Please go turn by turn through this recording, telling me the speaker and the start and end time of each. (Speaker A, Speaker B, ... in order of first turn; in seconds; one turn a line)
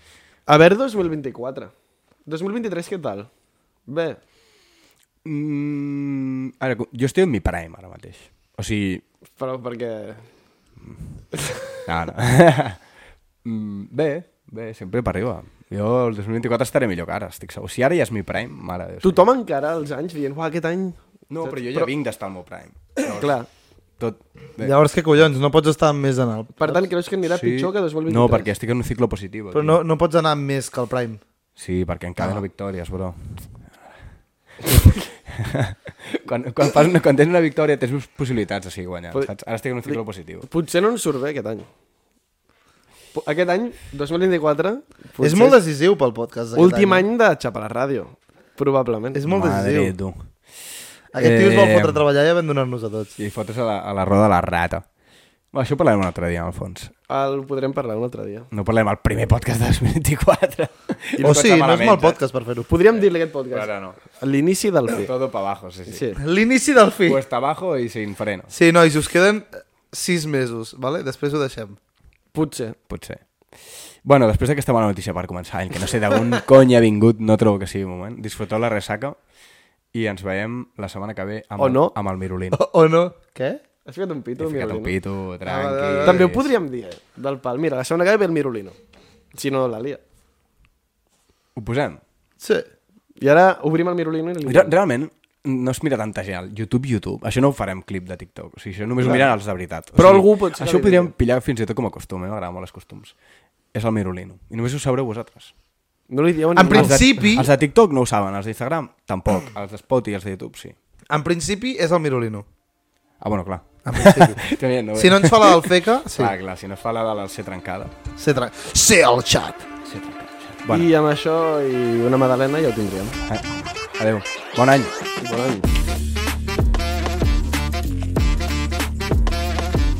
Speaker A: 0.5-1.7
Speaker A: 2.2-3.3
Speaker A: 3.9-4.2
Speaker B: 5.2-9.0
Speaker A: 9.4-10.3
Speaker A: 11.3-11.7
Speaker B: 11.8-12.8
Speaker B: 13.4-19.2
Speaker A: 19.0-21.9
Speaker B: 21.3-23.4
Speaker A: 23.1-23.5
Speaker B: 24.0-24.8
Speaker C: 24.6-26.8
Speaker A: 26.6-28.5
Speaker B: 27.2-29.8
Speaker C: 29.5-31.2
Speaker B: 31.6-33.6
Speaker B: 34.7-40.5
Speaker A: 39.9-41.7
Speaker A: 43.1-45.6
Speaker C: 45.2-47.0
Speaker A: 46.5-49.2
Speaker C: 49.1-49.9
Speaker B: 49.3-50.3
Speaker C: 51.1-53.1
Speaker B: 51.1-52.0
Speaker B: 53.2-54.8
Speaker B: 55.5-56.9
Speaker A: 57.1-58.5
Speaker B: 58.5-62.2
Speaker C: 61.2-62.7
Speaker A: 62.7-65.1
Speaker B: 63.5-64.0
Speaker B: 64.9-66.1
Speaker A: 65.9-66.2
Speaker C: 66.2-67.2
Speaker B: 67.0-68.5
Speaker C: 68.5-71.8
Speaker A: 72.3-72.8
Speaker B: 72.9-79.2
Speaker B: 79.9-82.6
Speaker A: 81.6-81.9
Speaker C: 82.5-83.6
Speaker A: 83.8-84.9
Speaker B: 84.4-86.5
Speaker C: 85.4-86.3
Speaker A: 86.0-88.8
Speaker A: 89.3-90.0
Speaker B: 91.5-92.0
Speaker C: 92.4-92.7
Speaker A: 93.2-94.7
Speaker B: 94.5-103.1
Speaker A: 99.9-101.1
Speaker B: 103.7-105.5
Speaker A: 106.1-107.0
Speaker C: 106.5-107.5
Speaker B: 106.7-110.7
Speaker C: 111.1-112.5
Speaker B: 113.2-117.9
Speaker C: 113.8-114.4
Speaker C: 115.0-116.3
Speaker C: 118.2-119.7
Speaker B: 119.8-120.9
Speaker A: 120.7-123.2
Speaker B: 123.3-124.9
Speaker A: 125.2-125.7